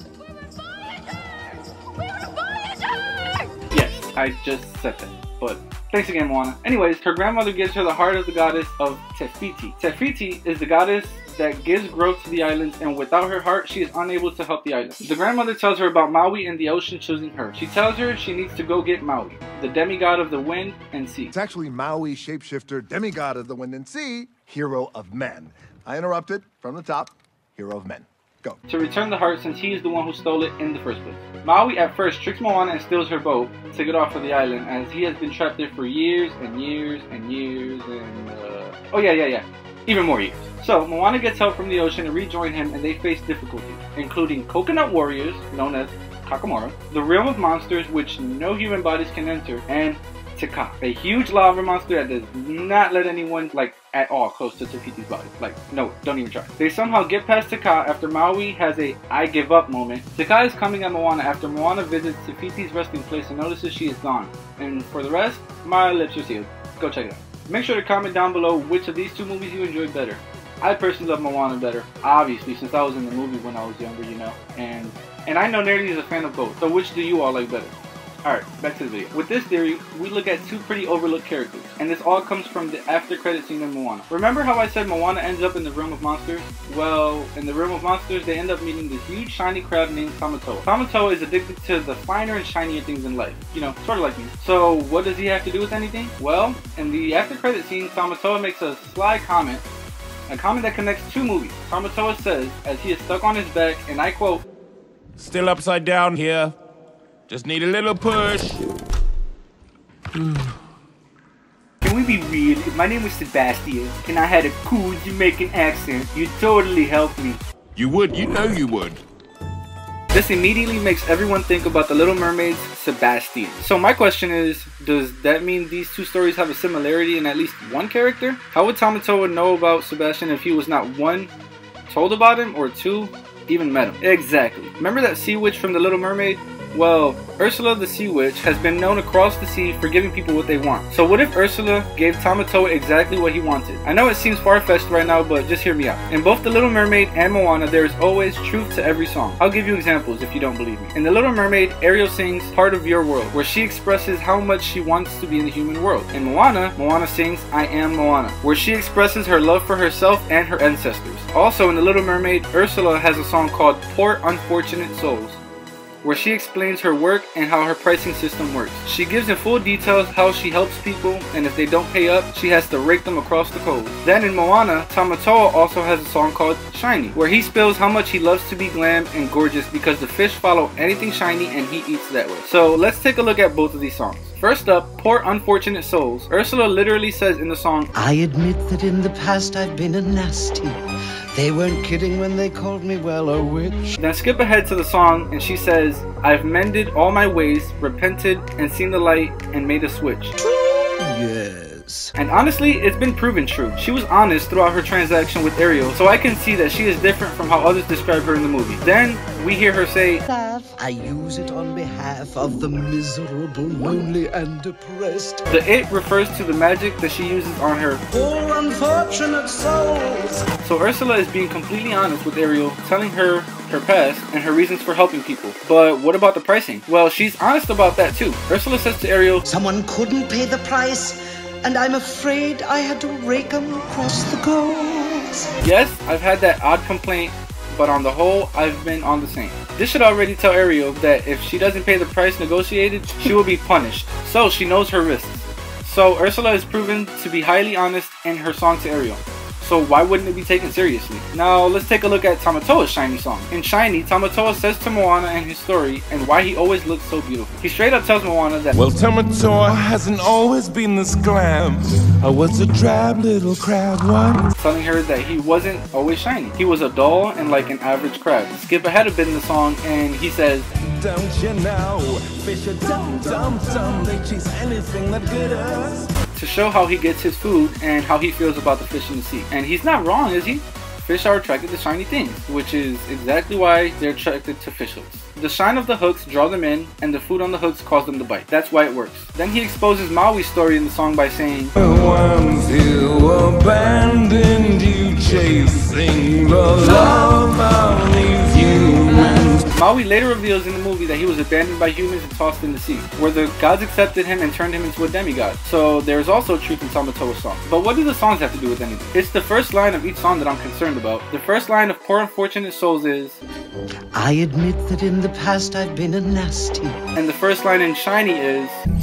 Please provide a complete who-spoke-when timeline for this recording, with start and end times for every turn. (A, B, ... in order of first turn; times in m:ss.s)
0:00.2-0:01.2 A
0:01.9-0:03.5 A
0:03.7-0:21.3 B
0:21.3-0:28.6 C
0:28.7-1:39.6 B
1:40.3-1:44.4 B
1:45.2-1:46.6 D
1:47.3-1:48.6 D
1:51.8-1:57.4 B
1:57.8-1:59.0 D
2:00.1-2:11.3 B
2:11.9-2:45.4 B
2:46.0-3:07.9 B
3:08.0-3:10.8 E
3:11.4-3:14.0 E
3:14.0-3:20.3 B
3:20.4-3:22.1 E
3:22.2-3:30.2 B
3:30.3-3:35.4 E
3:35.5-3:38.0 B
3:38.1-3:40.4 E
3:40.6-3:49.4 B
3:49.4-3:55.5 E
3:55.6-4:18.8 B
4:18.7-4:24.4 D
4:24.6-4:30.7 B
4:31.0-4:36.1 D
4:36.4-4:51.7 B
4:51.8-4:59.6 D
4:59.7-5:13.4 B
5:14.2-5:17.0 E
5:17.2-5:18.8 B